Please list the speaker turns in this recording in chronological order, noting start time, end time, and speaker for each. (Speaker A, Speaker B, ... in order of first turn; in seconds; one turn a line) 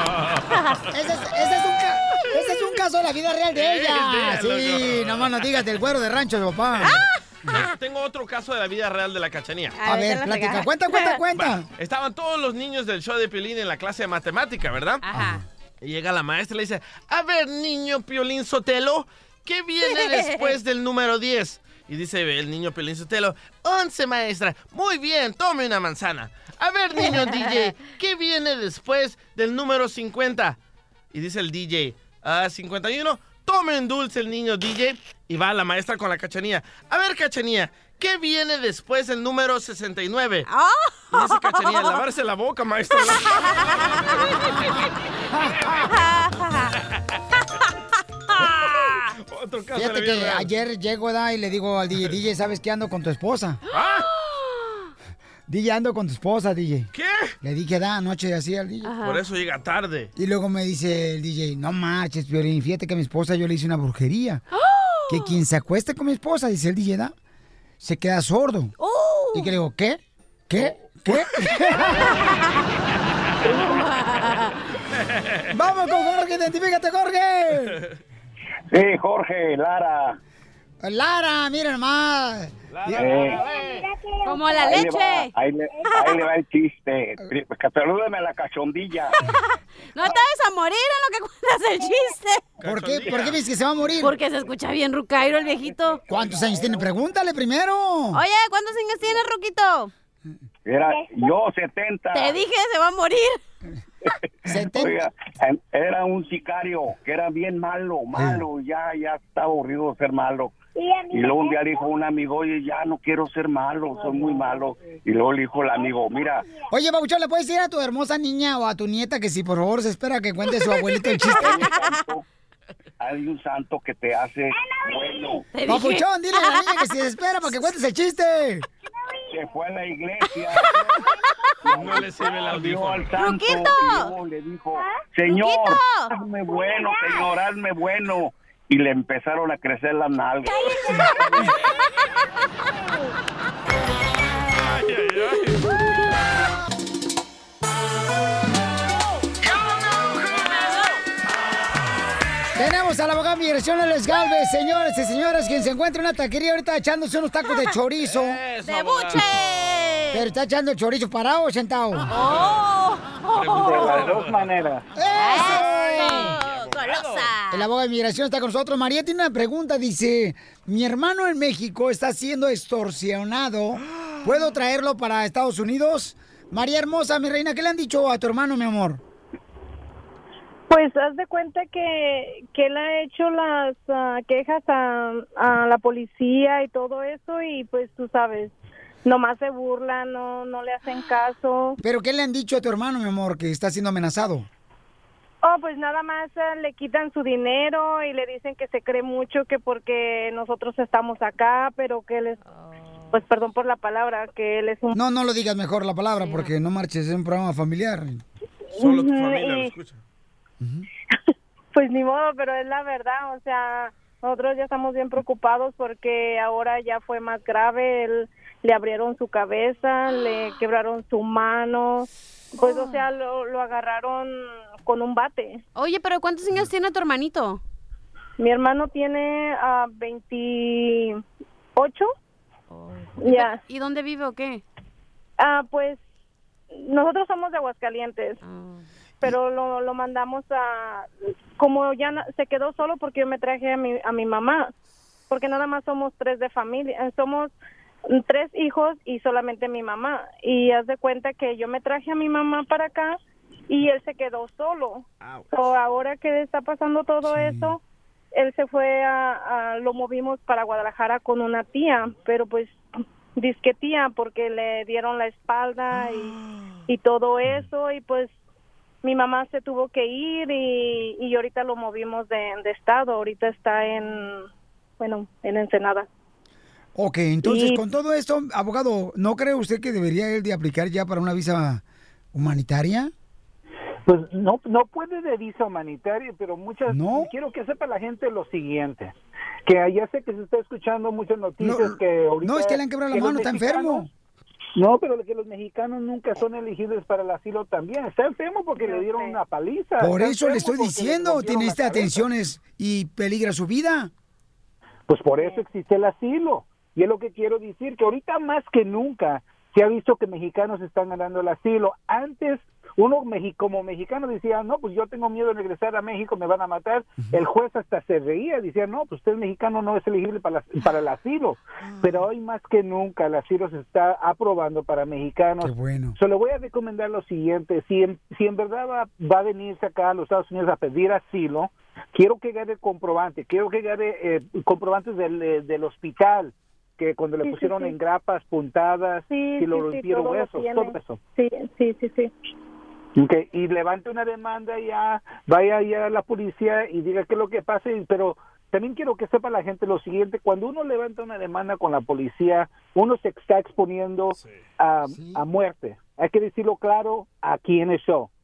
Speaker A: 0.9-7.0
Speaker B: 3.5-5.3
Speaker B: 6.8-9.8
Speaker C: 6.8-7.6
Speaker C: 9.8-11.2
Speaker A: 9.8-11.7
Speaker B: 11.3-15.0
Speaker C: 15.0-15.4
Speaker A: 15.1-15.4
Speaker B: 15.8-30.6
Speaker C: 19.9-20.5
Speaker C: 27.0-27.7
Speaker B: 31.1-40.5
Speaker C: 40.5-42.0
Speaker B: 41.1-44.0
Speaker C: 43.0-44.4
Speaker A: 45.4-45.7
Speaker C: 45.9-46.7
Speaker C: 48.3-49.1
Speaker B: 49.2-50.5
Speaker A: 49.7-53.6
Speaker B: 53.7-54.1
Speaker A: 55.5-56.9
Speaker B: 56.9-57.4
Speaker A: 57.4-58.9
Speaker C: 58.8-59.2
Speaker B: 59.0-60.1
Speaker A: 60.2-64.4
Speaker C: 64.5-65.4
Speaker A: 65.1-67.1
Speaker A: 67.8-68.8
Speaker C: 68.8-69.5
Speaker A: 69.3-72.2
Speaker C: 72.0-72.4
Speaker C: 73.4-74.5
Speaker B: 75.2-75.4
Speaker A: 75.5-77.8
Speaker D: 78.7-80.2
Speaker A: 80.8-82.5
Speaker B: 82.7-83.9
Speaker D: 82.9-83.4
Speaker C: 84.2-85.3
Speaker D: 84.6-89.2
Speaker C: 89.2-92.5
Speaker B: 92.6-93.4
Speaker A: 92.6-94.1
Speaker C: 94.0-96.0
Speaker A: 96.1-98.2
Speaker C: 98.1-99.9
Speaker D: 100.7-102.4
Speaker C: 102.1-103.4
Speaker D: 104.1-110.5
Speaker A: 104.5-105.0
Speaker A: 108.2-108.4
Speaker D: 111.1-116.5
Speaker A: 116.7-121.7
Speaker D: 121.3-122.2
Speaker C: 121.5-121.9
Speaker D: 123.0-125.5
Speaker C: 125.5-126.9
Speaker A: 125.7-128.7
Speaker C: 127.5-127.7
Speaker D: 129.3-131.0
Speaker D: 131.6-140.7
Speaker B: 131.7-133.1
Speaker C: 133.2-134.1
Speaker C: 135.3-136.1
Speaker B: 144.5-145.7
Speaker A: 152.6-158.4
Speaker B: 158.0-159.4
Speaker C: 158.6-160.3
Speaker A: 160.1-162.1
Speaker C: 162.1-164.1
Speaker B: 162.1-162.6
Speaker B: 163.3-164.5
Speaker E: 163.5-164.9
Speaker A: 164.9-166.4
Speaker C: 165.1-167.7
Speaker B: 165.2-167.3
Speaker A: 167.5-179.0
Speaker F: 180.7-188.5
Speaker F: 189.1-191.8
Speaker A: 191.8-194.5
Speaker F: 195.4-202.4
Speaker F: 203.1-205.0
Speaker A: 204.9-208.2
Speaker C: 206.2-206.5
Speaker F: 208.8-209.7
Speaker B: 208.8-210.0
Speaker A: 210.6-210.9
Speaker F: 211.7-225.6
Speaker C: 222.6-223.0
Speaker C: 225.8-227.6
Speaker F: 228.4-231.2
Speaker F: 231.8-232.1
Speaker C: 232.7-234.6
Speaker F: 233.2-233.6
Speaker F: 235.4-236.0
Speaker F: 236.8-238.4
Speaker C: 238.4-238.8
Speaker F: 239.2-244.7
Speaker F: 245.3-247.5
Speaker F: 248.1-253.2
Speaker F: 253.7-257.8
Speaker A: 257.3-257.8
Speaker F: 258.3-262.8
Speaker F: 263.4-268.3
Speaker F: 269.0-274.5
Speaker F: 275.0-276.1
Speaker A: 277.0-281.8
Speaker F: 277.4-277.8
Speaker A: 282.3-283.1
Speaker E: 284.1-289.1
Speaker A: 286.9-287.3
Speaker E: 289.7-294.1
Speaker A: 291.6-294.1
Speaker E: 294.8-302.2
Speaker F: 298.8-299.4
Speaker A: 300.0-304.1
Speaker E: 305.1-341.2
Speaker A: 325.6-326.2
Speaker F: 337.4-338.0
Speaker F: 339.3-342.3
Speaker E: 343.2-358.3
Speaker A: 355.1-355.4